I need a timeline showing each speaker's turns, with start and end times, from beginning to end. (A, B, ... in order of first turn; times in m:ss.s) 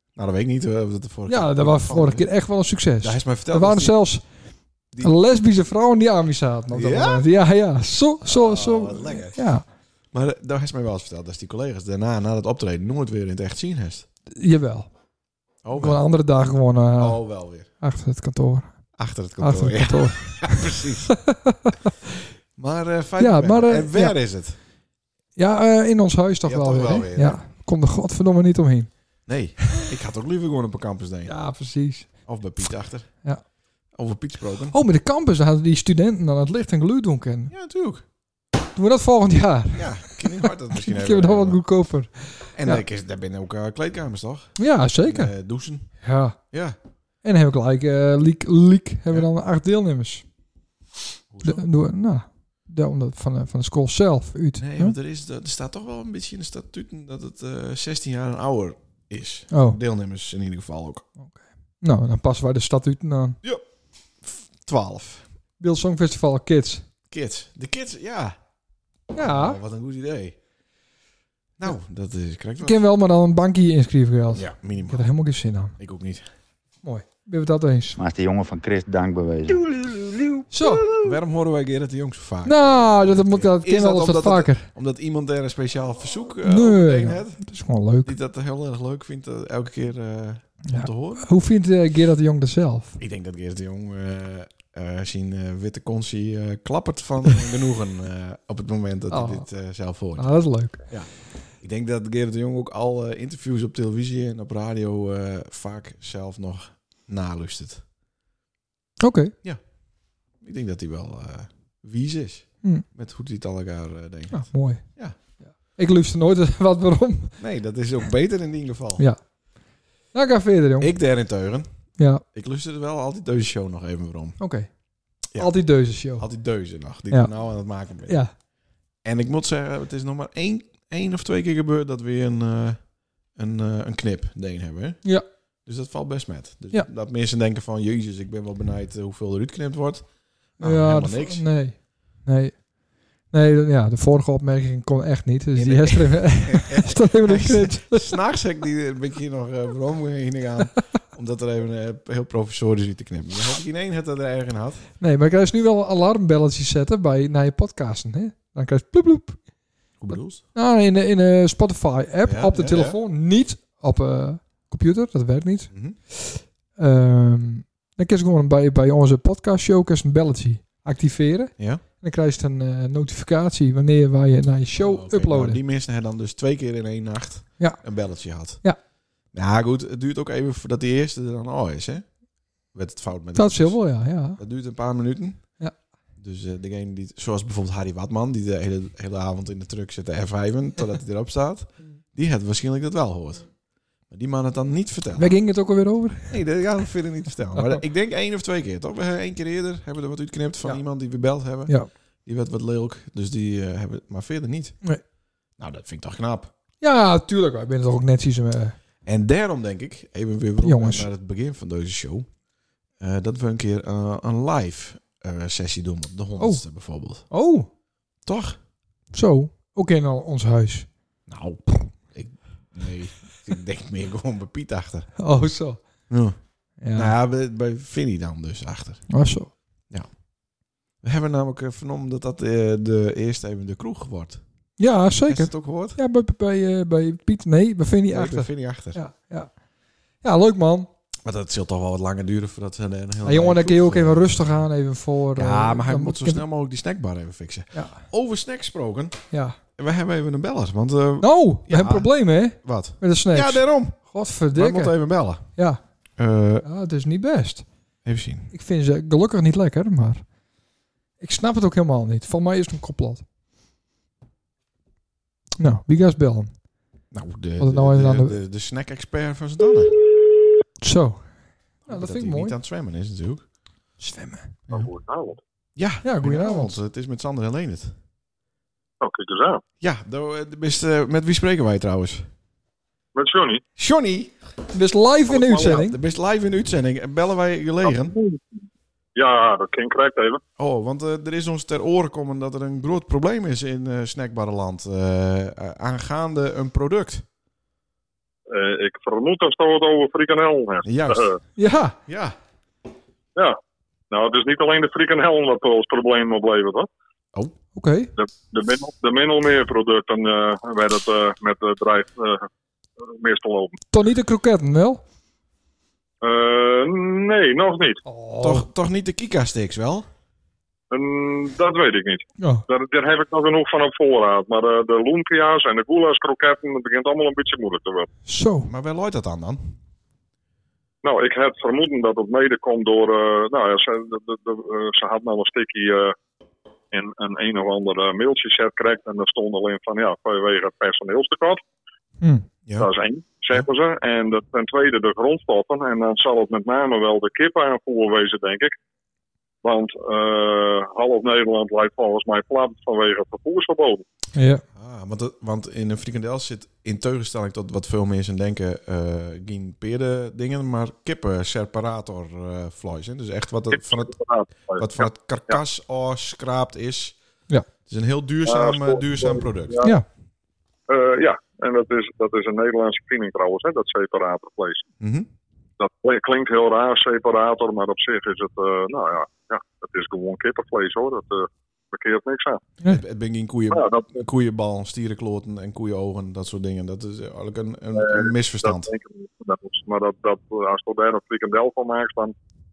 0:00.2-0:02.3 A
0:01.3-0:04.3 B
0:03.0-0:04.0 A
0:05.0-0:09.6 B
0:06.7-0:07.3 A
0:08.2-0:09.4 A
0:10.1-0:14.1 A
0:14.4-0:14.9 B
0:15.6-0:16.0 A
0:15.8-0:21.9 B
0:17.0-0:17.7 A
0:19.0-0:21.2 A
0:22.6-0:24.6 A
0:23.2-0:24.2 B
0:25.4-0:28.9 B
0:26.5-0:27.4 A
0:29.3-0:31.3 A
0:31.3-0:32.2 B
0:32.3-0:33.1 A
0:34.0-0:34.8 A
0:34.7-0:37.5 B
0:37.5-0:38.0 A
0:38.8-0:42.8 B
0:39.8-0:41.6 A
0:42.6-0:45.9 A
0:44.6-0:45.3 B
0:46.0-0:46.4 B
0:46.5-0:46.8 A
0:47.2-0:50.2 B
0:51.3-0:51.7 A
0:51.4-0:55.0 B
0:54.6-1:01.1 A
0:59.5-0:59.8 B
1:01.2-1:03.4 B
1:04.2-1:05.3 A
1:05.6-1:06.8 B
1:07.1-1:08.4 A
1:09.1-1:10.4 A
1:09.2-1:09.6 B
1:11.6-1:12.8 A
1:12.6-1:15.8 B
1:14.3-1:15.1 A
1:15.8-1:16.3 A
1:16.8-1:18.0 B
1:18.0-1:19.9 C
1:20.5-1:20.9 B
1:20.9-1:27.4 A
1:22.4-1:24.7 B
1:26.4-1:28.1 B
1:28.0-1:31.3 A
1:30.7-1:33.0 B
1:33.0-1:40.3 A
1:39.1-1:39.5 B
1:40.2-1:40.8 B
1:40.9-1:47.8 A
1:49.0-1:49.4 B
1:50.4-1:55.2 A
1:54.3-1:57.4 B
1:57.4-1:59.0 A
2:00.1-2:00.9 B
2:00.8-2:01.7 A
2:02.0-2:02.2 B
2:02.3-2:04.4 A
2:04.4-2:04.7 B
2:05.2-2:06.3 B
2:06.2-2:08.2 A
2:09.0-2:15.0 A
2:15.7-2:21.4 A
2:20.6-2:22.7 B
2:23.3-2:28.2 B
2:25.6-2:34.8 A
2:35.0-2:39.4 B
2:40.0-2:40.4 A
2:40.1-2:55.6 B
2:42.2-2:43.0 A
2:51.6-2:51.8 A
2:54.8-2:58.6 A
2:57.6-2:58.8 B
2:59.3-3:02.1 A
3:02.7-3:05.6 A
3:03.4-3:04.4 B
3:06.2-3:13.5 A
3:14.1-3:15.3 A
3:15.2-3:16.4 B
3:16.3-3:24.8 A
3:25.6-3:26.5 A
3:26.8-3:28.8 B
3:29.1-3:32.3 A
3:30.6-3:31.1 B
3:33.0-3:37.2 A
3:37.3-3:37.7 B
3:38.3-3:38.6 A
3:39.1-3:40.9 B
3:41.3-3:45.2 A
3:45.2-3:45.8 B
3:46.1-3:46.4 A
3:46.8-3:47.1 B
3:46.9-3:49.1 A
3:49.1-3:49.5 B
3:51.0-3:54.4 A
3:54.8-3:59.6 B
3:55.3-3:56.0 A
3:58.1-3:59.0 A
4:00.2-4:00.9 B
4:01.2-4:04.6 A
4:03.2-4:06.4 B
4:05.4-4:09.2 A
4:07.7-4:08.0 B
4:09.3-4:09.6 B
4:09.8-4:12.1 A
4:11.2-4:15.8 B
4:12.6-4:14.0 A
4:14.5-4:15.5 A
4:16.2-4:16.7 A
4:16.6-4:17.7 B
4:18.0-4:18.5 A
4:18.5-4:20.3 B
4:21.2-4:23.2 B
4:25.6-4:26.6 B
4:27.1-4:30.0 A
4:27.6-4:28.4 B
4:30.8-4:32.6 B
4:31.9-4:33.4 A
4:34.0-4:34.6 B
4:34.7-4:35.4 D
4:35.8-4:38.0 A
4:36.0-4:36.8 B
4:39.0-4:39.6 D
4:39.8-4:42.3 A
4:43.2-4:43.6 D
4:43.8-4:44.4 A
4:44.7-4:46.0 B
4:45.3-4:45.8 D
4:45.6-4:48.1 A
4:47.8-4:48.4 D
4:49.2-4:50.4 D
4:50.6-4:57.2 A
4:58.5-5:01.4 D
5:00.8-5:01.3 A
5:01.6-5:02.0 B
5:02.1-5:02.4 A
5:04.1-5:06.9 D
5:07.8-5:08.1 B
5:08.2-5:12.5 D
5:13.0-5:13.8 D
5:13.9-5:15.0 B
5:16.2-5:18.0 D
5:18.1-5:18.7 B
5:18.4-5:20.1 A
5:20.9-5:28.1 D
5:22.4-5:22.6 B
5:28.3-5:28.7 B
5:28.6-5:29.8 A
5:31.0-5:36.2 D
5:36.9-5:41.6 D
5:42.2-5:42.5 B
5:42.8-5:48.7 D
5:49.6-5:54.0 D
5:54.4-5:54.6 B
5:54.8-6:04.2 A
6:03.7-6:05.6 D
6:04.7-6:07.2 A
6:07.9-6:09.9 A
6:08.5-6:10.0 D
6:10.9-6:14.8 D
6:15.0-6:15.3 A
6:15.8-6:22.6 D
6:22.8-6:28.9 A
6:23.7-6:24.2 D
6:28.0-6:32.4 D